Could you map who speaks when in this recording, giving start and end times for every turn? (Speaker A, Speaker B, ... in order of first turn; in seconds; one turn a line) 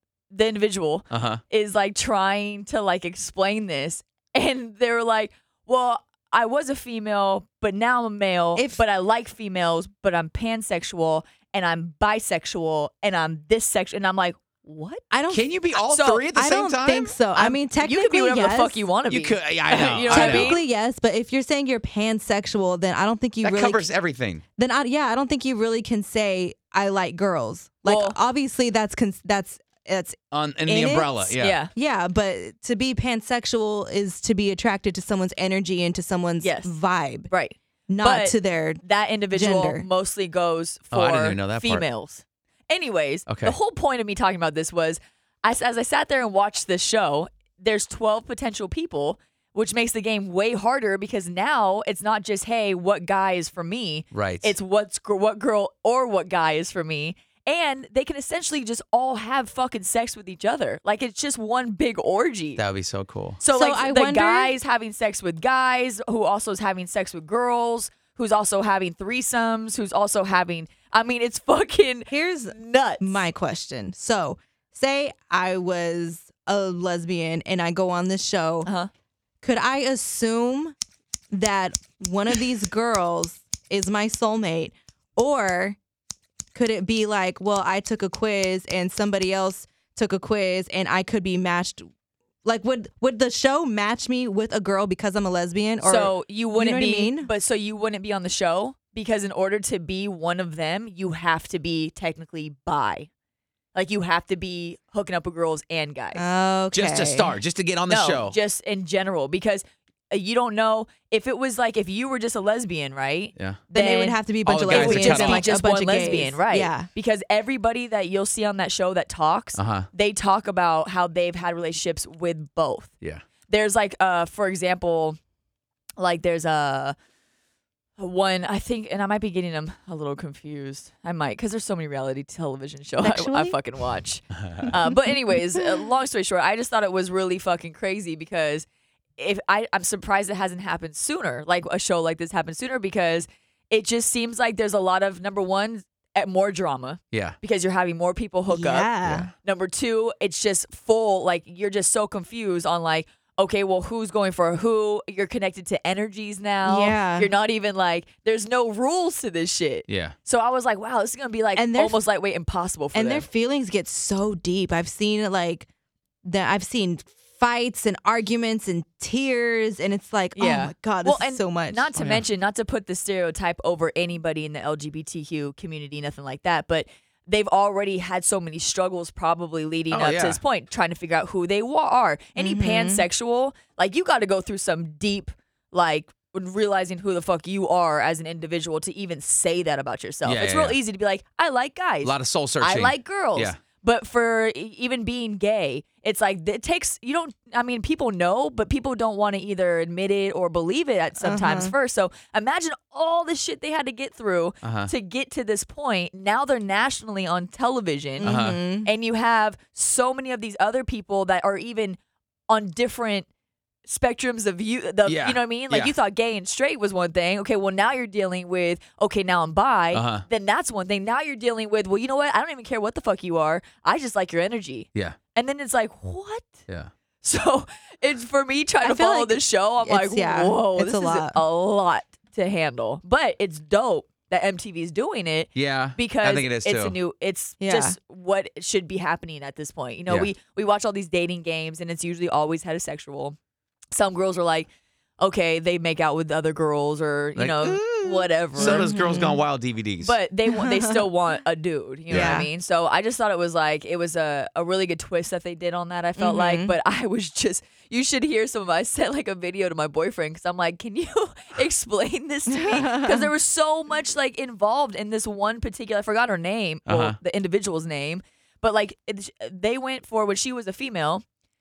Speaker A: 0.3-15.0
Speaker B: 1.1-1.4
Speaker C: 8.6-8.8
Speaker C: 15.1-15.5
Speaker B: 15.3-17.2
Speaker A: 15.8-16.2
Speaker C: 16.3-18.8
Speaker A: 17.4-20.6
Speaker B: 19.1-20.6
Speaker C: 20.1-23.9
Speaker B: 23.4-24.4
Speaker C: 24.6-37.3
Speaker A: 27.9-28.2
Speaker B: 30.3-31.6
Speaker A: 31.4-31.7
Speaker A: 36.4-36.7
Speaker A: 37.3-62.6
Speaker C: 37.9-39.9
Speaker B: 40.9-41.9
Speaker B: 43.3-43.6
Speaker B: 54.1-54.5
Speaker B: 62.6-63.4
Speaker A: 63.4-73.2
Speaker C: 63.5-64.5
Speaker C: 72.1-78.7
Speaker A: 78.6-78.9
Speaker C: 79.4-80.7
Speaker C: 81.3-85.8
Speaker C: 86.5-91.9
Speaker C: 92.4-97.3
Speaker A: 95.8-103.1
Speaker A: 103.7-106.2
Speaker C: 106.1-107.3
Speaker B: 106.7-108.4
Speaker A: 107.9-122.9
Speaker B: 113.4-113.6
Speaker C: 113.7-116.9
Speaker B: 114.5-115.5
Speaker B: 119.6-119.9
Speaker A: 123.5-125.2
Speaker A: 126.0-126.9
Speaker A: 128.0-138.7
Speaker C: 133.0-133.6
Speaker C: 134.7-135.7
Speaker A: 139.2-148.9
Speaker C: 148.5-149.3
Speaker B: 149.0-149.3
Speaker A: 149.4-163.2
Speaker C: 156.6-157.3
Speaker B: 159.9-160.1
Speaker C: 161.6-162.0
Speaker C: 162.9-165.7
Speaker C: 166.2-171.9
Speaker A: 170.4-212.0
Speaker B: 172.0-172.2
Speaker B: 179.9-180.4
Speaker C: 182.4-183.1
Speaker B: 190.2-190.8
Speaker B: 192.0-193.6
Speaker C: 201.2-201.7
Speaker B: 204.6-204.9
Speaker C: 208.2-208.9
Speaker B: 208.2-208.6
Speaker A: 212.5-213.3
Speaker A: 213.9-226.5
Speaker B: 215.1-215.9
Speaker B: 219.9-220.2
Speaker A: 227.2-243.4
Speaker C: 228.8-231.4
Speaker B: 235.6-236.9
Speaker C: 237.6-238.0
Speaker A: 243.9-244.7
Speaker A: 245.2-248.9
Speaker B: 247.4-250.1
Speaker C: 248.6-249.4
Speaker A: 250.0-271.2
Speaker C: 250.5-251.1
Speaker B: 252.1-252.4
Speaker C: 252.1-252.5
Speaker C: 256.2-256.8
Speaker C: 262.5-263.3
Speaker B: 266.9-267.2